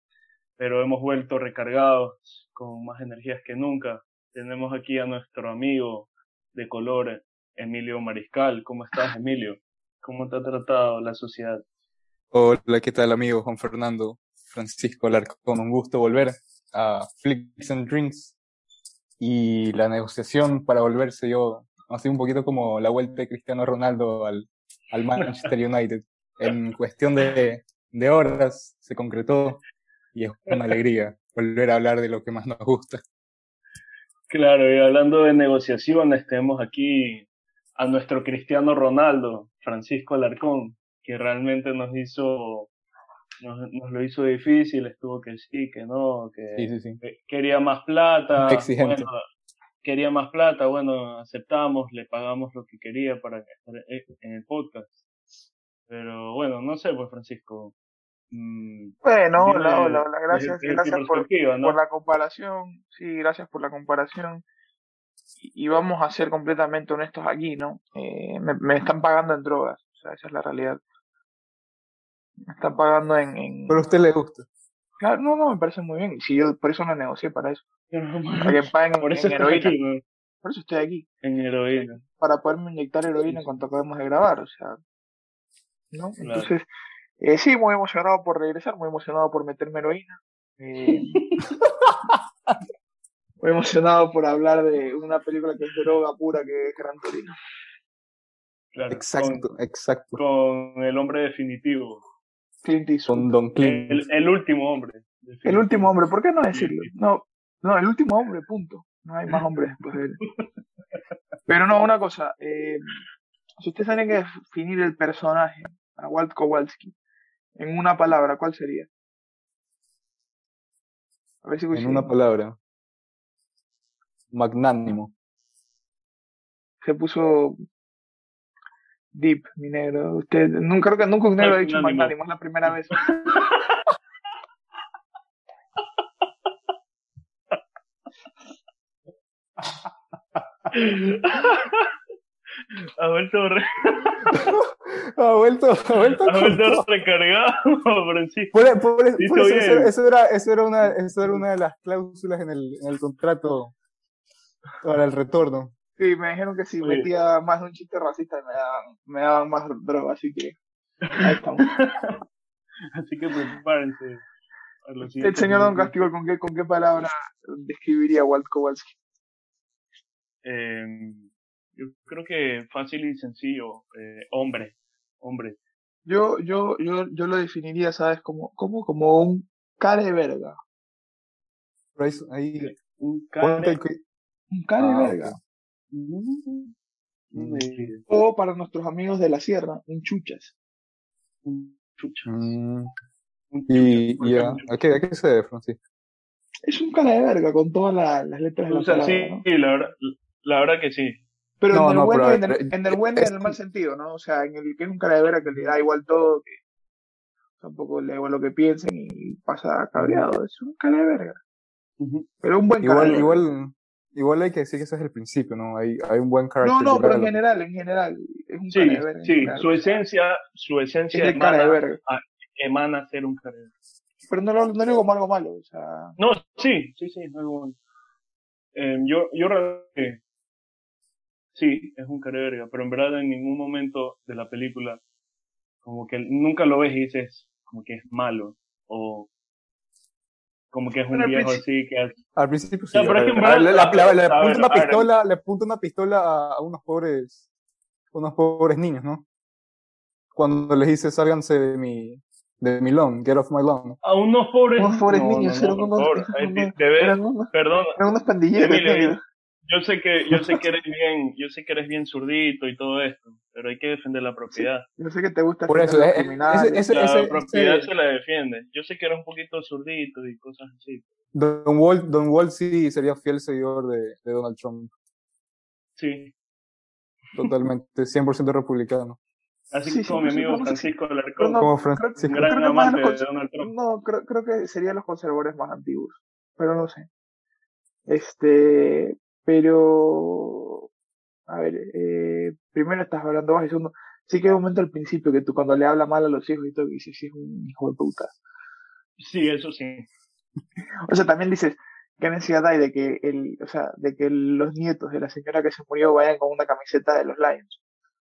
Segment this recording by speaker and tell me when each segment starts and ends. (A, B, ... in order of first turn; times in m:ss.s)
0:00.6-0:11.6 A
0:12.3-0:18.3 B
0:19.2-0:29.6 B
0:25.2-0:25.5 A
0:30.1-0:33.0 B
0:34.3-0:42.7 A
0:43.4-0:49.2 A
0:46.6-0:47.0 B
0:48.4-0:49.1 B
0:49.8-0:55.0 A
0:55.9-0:57.7 A
0:58.3-1:01.8 A
0:59.0-1:04.4 C
1:05.4-1:10.8 C
1:12.5-1:13.8 C
1:13.7-1:14.4 B
1:15.0-1:17.6 C
1:17.9-1:20.0 A
1:18.4-1:19.7 C
1:20.4-1:21.0 C
1:21.2-1:22.0 A
1:22.0-1:24.8 C
1:25.9-1:26.6 C
1:26.2-1:26.5 A
1:27.2-1:31.2 C
1:30.8-1:31.5 A
1:33.4-1:37.3 C
1:38.7-1:39.5 A
1:38.9-1:40.2 B
1:40.1-1:42.0 A
1:42.6-1:43.3 C
1:43.1-1:44.0 B
1:43.6-1:45.9 A
1:45.4-1:50.2 C
1:46.5-1:46.9 A
1:51.5-1:53.0 C
1:53.6-1:56.9 C
1:57.6-1:58.9 C
2:01.4-2:02.1 C
2:01.7-2:02.6 B
2:04.3-2:05.1 B
2:06.8-2:07.6 C
2:09.1-2:13.0 C
2:11.4-2:12.1 A
2:12.7-2:13.7 A
2:20.7-2:21.9 A
2:22.8-2:24.6 A
2:24.2-2:26.8 B
2:26.2-2:28.5 A
2:28.5-2:33.7 B
2:29.2-2:29.9 A
2:34.8-2:35.7 B
2:36.0-2:40.6 C
2:36.8-2:37.1 A
2:41.0-2:42.2 A
2:41.2-2:41.8 C
2:42.9-2:44.2 A
2:44.8-2:45.9 A
2:45.2-2:48.9 C
2:50.4-2:55.6 A
2:56.0-3:00.6 C
3:02.0-3:02.7 B
3:02.9-3:03.8 A
3:03.4-3:04.0 B
3:04.5-3:05.4 C
3:04.8-3:05.4 B
3:05.9-3:06.7 A
3:07.3-3:08.0 A
3:07.4-3:07.9 B
3:08.1-3:10.5 C
3:11.4-3:12.5 A
3:12.2-3:12.9 B
3:13.5-3:14.7 A
3:13.7-3:15.8 B
3:16.6-3:19.4 C
3:18.7-3:21.2 A
3:21.6-3:26.5 C
3:21.7-3:23.5 B
3:27.6-3:31.4 C
3:30.0-3:30.2 B
3:32.0-3:32.2 A
3:32.4-3:33.4 C
3:32.8-3:37.3 B
3:36.6-3:40.0 C
3:38.7-3:43.7 A
3:41.1-3:42.0 C
3:44.3-3:46.2 C
3:46.2-3:47.8 A
3:48.7-3:50.2 A
3:51.5-3:55.0 A
3:55.8-3:59.3 A
4:00.7-4:02.1 A
4:01.1-4:01.6 C
4:02.4-4:07.4 B
4:02.9-4:05.1 A
4:08.1-4:09.2 B
4:10.3-4:14.0 B
4:14.0-4:18.0 A
4:14.8-4:19.2 C
4:18.6-4:24.8 A
4:24.5-4:26.8 C
4:25.7-4:27.9 B
4:26.9-4:31.0 A
4:31.3-4:34.9 B
4:36.0-4:36.3 A
4:37.4-4:39.2 B
4:39.7-4:41.7 A
4:39.8-4:47.1 C
4:41.6-4:42.5 B
4:42.3-4:43.7 A
4:48.1-4:50.8 C
4:51.5-4:58.3 C
4:59.2-5:00.1 A
5:01.0-5:07.8 C